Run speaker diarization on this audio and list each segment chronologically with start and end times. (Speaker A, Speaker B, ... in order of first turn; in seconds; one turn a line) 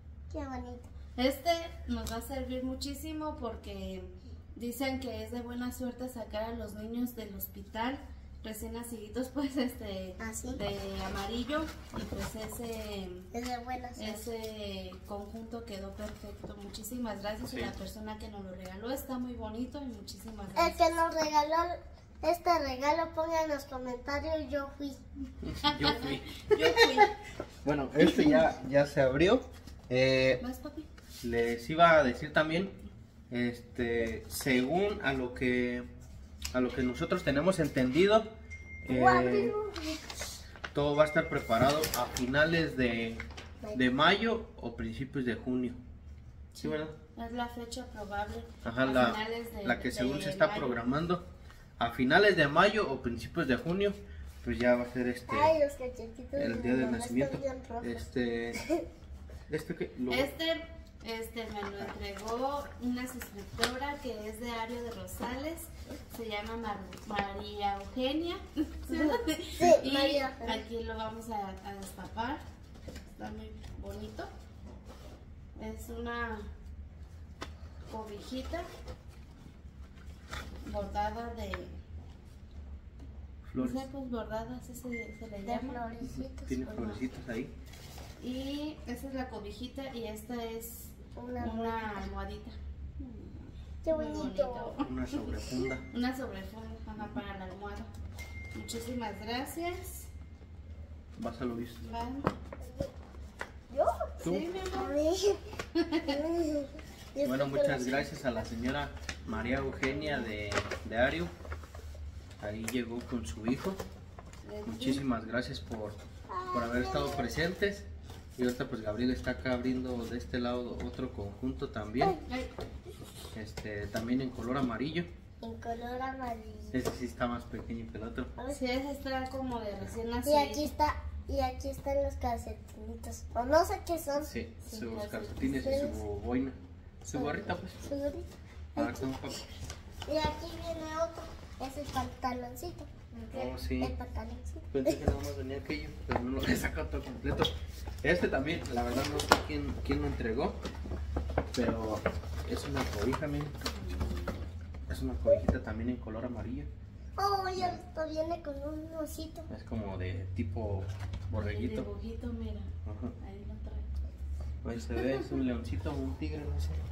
Speaker A: 0.3-0.9
Speaker B: 1.2-13.3
Speaker A: 10.2-10.6
Speaker A: 13.3-14.2
Speaker B: 14.0-20.9
Speaker C: 17.4-17.7
Speaker A: 20.6-25.0
Speaker C: 25.4-26.9
Speaker B: 25.6-27.1
Speaker C: 27.6-30.4
Speaker B: 30.4-30.9
Speaker C: 31.2-32.8
Speaker C: 33.3-35.9
Speaker C: 36.5-38.3
Speaker C: 38.8-39.5
Speaker A: 38.9-40.4
Speaker C: 40.7-43.2
Speaker C: 43.7-45.8
Speaker B: 46.5-50.8
Speaker C: 46.6-46.9
Speaker C: 48.6-51.2
Speaker C: 51.8-55.5
Speaker A: 55.3-58.9
Speaker C: 56.4-58.6
Speaker C: 59.5-60.3
Speaker B: 60.1-72.4
Speaker A: 68.9-70.7
Speaker B: 73.2-74.3
Speaker B: 75.6-76.5
Speaker B: 77.9-78.7
Speaker B: 80.7-81.8
Speaker C: 83.5-83.9
Speaker B: 83.6-85.8
Speaker A: 85.4-86.6
Speaker C: 86.0-87.5
Speaker B: 86.6-87.0
Speaker B: 88.2-95.4
Speaker A: 91.2-92.1
Speaker A: 93.8-94.8
Speaker C: 94.8-95.8
Speaker B: 95.9-97.9
Speaker B: 98.5-100.1
Speaker C: 101.2-101.8
Speaker B: 101.8-102.3
Speaker A: 102.6-102.9
Speaker A: 103.7-104.2
Speaker C: 104.2-104.5
Speaker B: 104.2-105.0
Speaker A: 104.7-105.5
Speaker B: 105.8-106.2
Speaker A: 106.0-108.4
Speaker C: 107.2-111.3
Speaker B: 109.2-110.3
Speaker C: 112.4-113.8
Speaker B: 114.5-115.0
Speaker C: 114.7-116.0
Speaker A: 116.3-117.3
Speaker C: 116.5-122.2
Speaker B: 122.2-122.5
Speaker C: 123.3-125.1
Speaker A: 125.4-126.8
Speaker C: 126.7-128.3
Speaker A: 128.4-128.6
Speaker B: 128.5-130.7
Speaker A: 130.2-134.3
Speaker C: 134.2-137.8
Speaker B: 134.7-136.0
Speaker A: 135.6-136.0
Speaker A: 137.1-139.4
Speaker C: 138.8-139.4
Speaker A: 140.1-143.1
Speaker B: 143.2-143.5
Speaker C: 143.3-143.9
Speaker A: 143.8-145.0
Speaker C: 144.7-150.6
Speaker C: 151.5-153.5
Speaker B: 153.7-154.4
Speaker C: 154.9-156.7
Speaker A: 157.2-159.5
Speaker C: 159.5-161.9
Speaker B: 161.3-162.7
Speaker C: 162.8-163.2
Speaker B: 163.2-163.9
Speaker C: 164.6-166.8
Speaker B: 164.9-165.4